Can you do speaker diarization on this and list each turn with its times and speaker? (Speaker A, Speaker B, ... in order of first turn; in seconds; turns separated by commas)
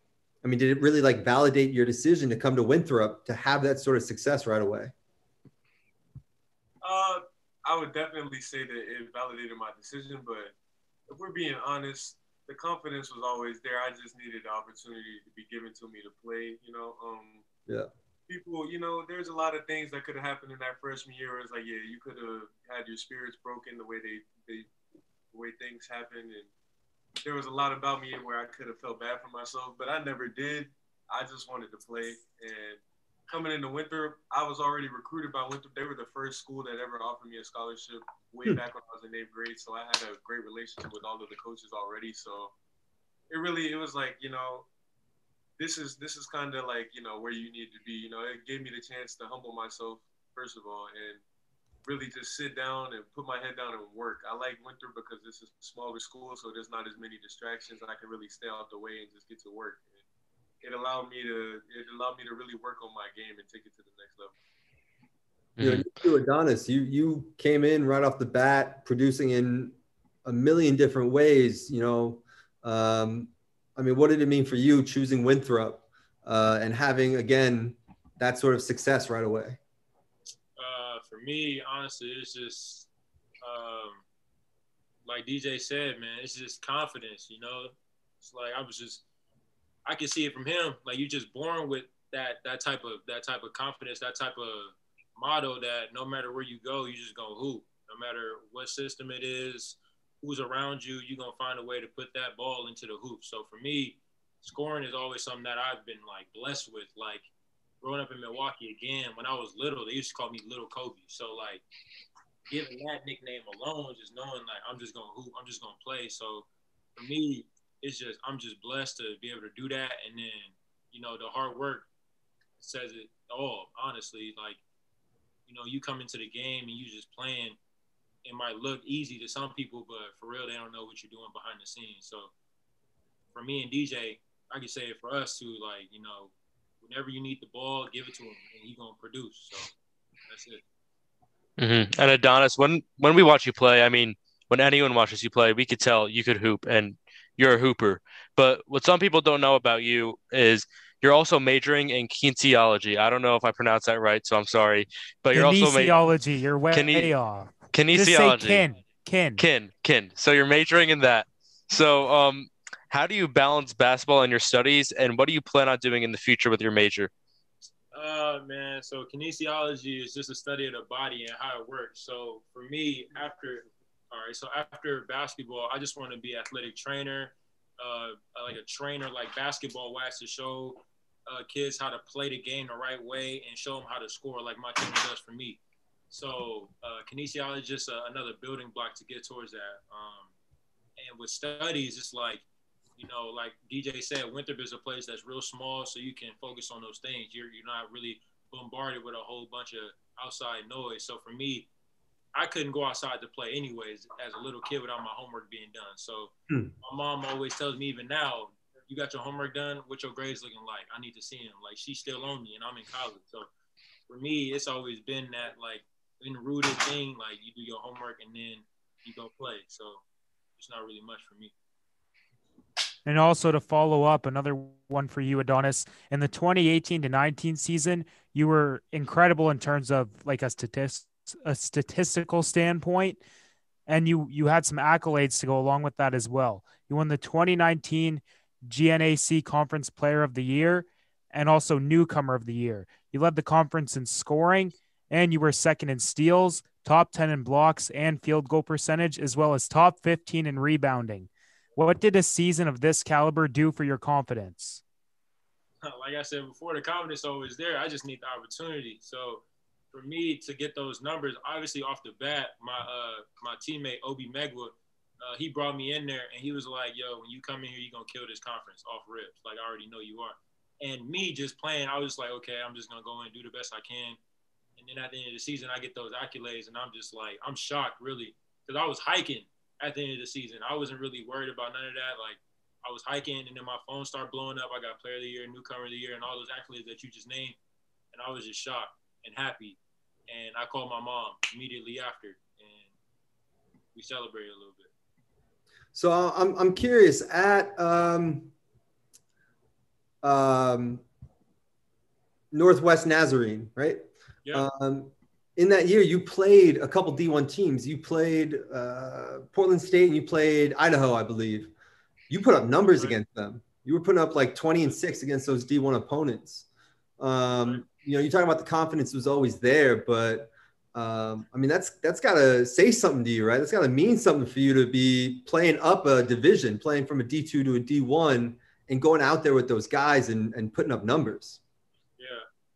Speaker A: 0.4-4.9, Speaker B: 6.8-10.5, Speaker B: 11.1-17.4, Speaker B: 18.3-24.7, Speaker B: 25.3-26.5, Speaker B: 27.2-42.5, Speaker B: 43.3-44.7, Speaker B: 45.6-51.2, Speaker B: 51.9-60.0, Speaker B: 60.6-64.3, Speaker C: 65.6-65.8, Speaker A: 65.6-79.6, Speaker D: 80.6-82.9, Speaker D: 83.4-84.0, Speaker D: 85.0-89.0, Speaker D: 89.9-107.3, Speaker D: 107.8-111.6, Speaker D: 112.5-116.5, Speaker D: 117.0-121.9, Speaker D: 122.6-124.6, Speaker D: 125.5-127.6, Speaker D: 128.2-132.3, Speaker D: 133.3-139.7, Speaker D: 140.3-140.6, Speaker C: 141.6-156.0, Speaker E: 155.3-159.4, Speaker C: 156.7-157.1, Speaker C: 157.7-158.6, Speaker C: 159.4-167.1, Speaker D: 167.9-190.3, Speaker D: 191.0-192.4, Speaker D: 193.0-201.7, Speaker D: 202.3-213.5, Speaker D: 214.1-220.0, Speaker D: 220.6-221.5, Speaker E: 223.1-233.2, Speaker E: 233.9-254.8, Speaker D: 255.8-274.2, Speaker D: 274.8-287.6, Speaker D: 288.1-292.9, Speaker D: 293.9-294.9, Speaker A: 295.9-298.5, Speaker A: 300.2-301.0, Speaker A: 302.5-311.7, Speaker A: 312.3-316.7, Speaker A: 317.2-331.6, Speaker D: 332.2-332.4